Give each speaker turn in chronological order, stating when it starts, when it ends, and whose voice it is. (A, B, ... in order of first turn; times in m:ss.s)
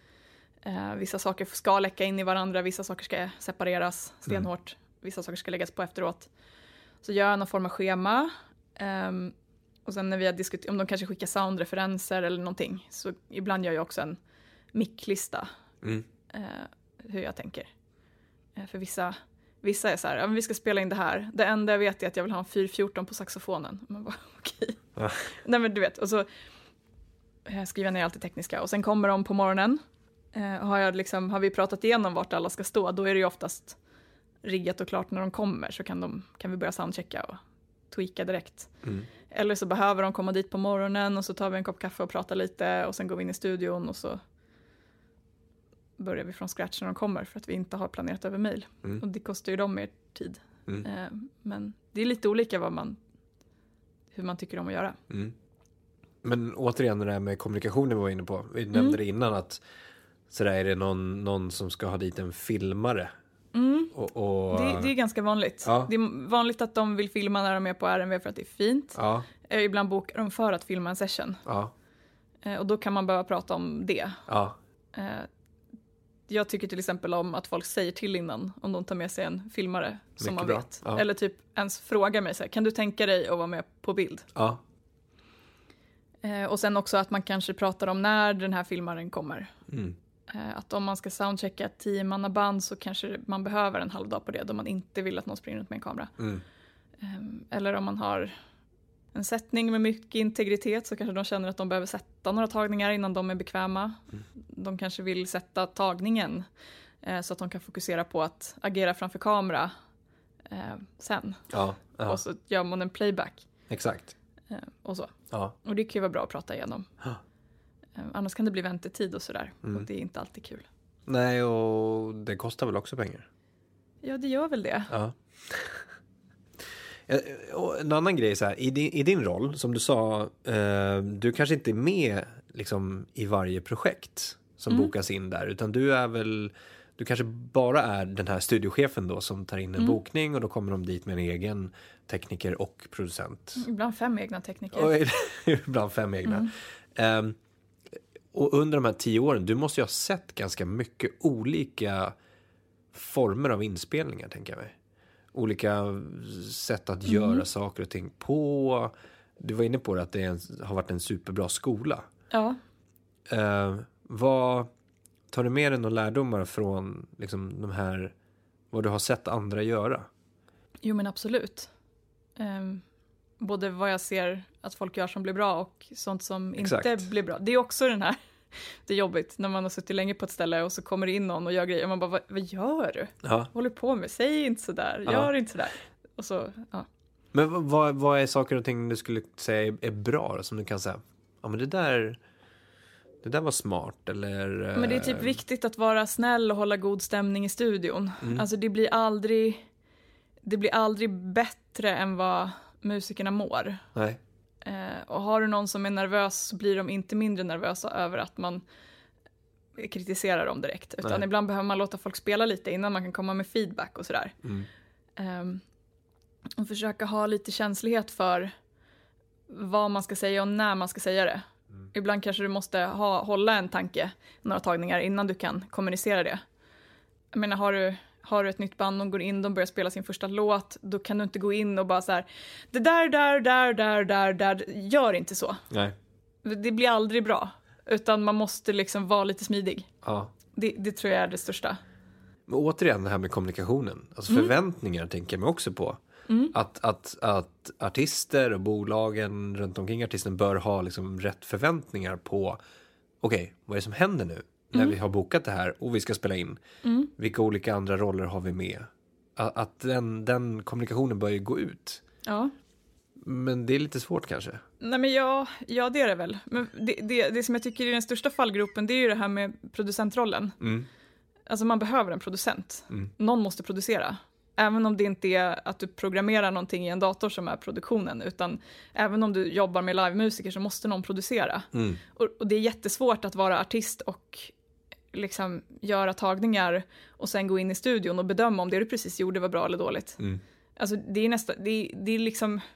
0:00.6-0:06.3 A
0:07.0-0:14.2 A
0:14.7-0:15.5 A
0:16.3-0:17.7 A
0:18.6-0:24.8 A
0:25.0-0:25.2 B
0:25.3-0:26.3 A
0:27.5-0:29.8 A
0:30.3-0:33.8 A
0:34.4-0:37.4 A
0:37.9-0:38.7 A
0:39.3-0:44.2 A
0:46.0-0:53.0 A
0:54.1-0:55.0 A
0:56.2-0:59.6 B
0:58.7-0:59.0 A
1:00.3-1:03.1 B
1:03.5-1:03.9 A
1:03.9-1:04.9 B
1:04.5-1:11.4 A
1:05.6-1:05.9 B
1:09.0-1:09.3 B
1:11.5-1:11.7 B
1:12.4-1:14.2 A
1:14.3-1:14.6 B
1:14.9-1:15.3 A
1:16.3-1:24.3 A
1:20.2-1:21.0 B
1:24.4-1:24.6 B
1:26.2-1:29.5 A
1:29.7-1:30.0 B
1:30.3-1:36.1 A
1:36.2-1:36.4 B
1:37.0-1:38.3 A
1:39.1-1:46.4 A
1:47.0-1:49.7 A
1:50.5-1:51.5 A
1:51.5-1:52.2 B
1:52.0-1:53.5 A
1:53.7-1:54.2 B
1:54.5-1:56.9 A
1:58.0-2:00.7 A
2:01.1-2:03.3 B
2:04.0-2:04.9 A
2:04.9-2:05.8 B
2:07.1-2:23.6 B
2:23.6-2:24.9 A
2:24.7-2:27.4 B
2:26.2-2:26.5 A
2:28.3-2:32.2 B
2:32.9-2:34.7 B
2:35.3-2:42.1 B
2:37.1-2:37.4 A
2:42.3-2:42.6 A
2:43.3-2:44.7 B
2:45.3-2:48.1 B
2:48.7-2:50.1 B
2:50.8-2:51.7 A
2:52.4-2:52.8 A
2:53.4-2:58.2 A
2:56.6-2:57.0 B
2:58.9-3:06.9 A
3:03.2-3:03.5 B
3:07.3-3:12.2 B
3:13.2-3:15.4 B
3:14.8-3:19.6 A
3:20.4-3:23.8 A
3:24.6-3:28.6 A
3:29.8-3:34.4 A
3:34.4-3:34.7 B
3:35.2-3:35.6 A
3:36.6-3:38.5 A
3:39.5-3:46.4 A
3:47.3-3:55.6 A
3:55.7-3:56.0 B
3:56.4-3:59.9 A
4:00.0-4:00.3 B
4:00.5-4:01.8 A
4:02.5-4:06.0 B
4:06.3-4:06.5 A
4:06.5-4:12.6 B
4:13.2-4:16.6 B
4:16.8-4:17.1 A
4:17.2-4:22.0 B
4:22.2-4:22.5 A
4:23.2-4:24.6 B
4:24.8-4:30.6 A
4:30.6-4:30.9 B
4:31.5-4:44.5 A
4:41.7-4:42.0 B
4:45.1-4:50.2 A
4:50.8-4:52.6 A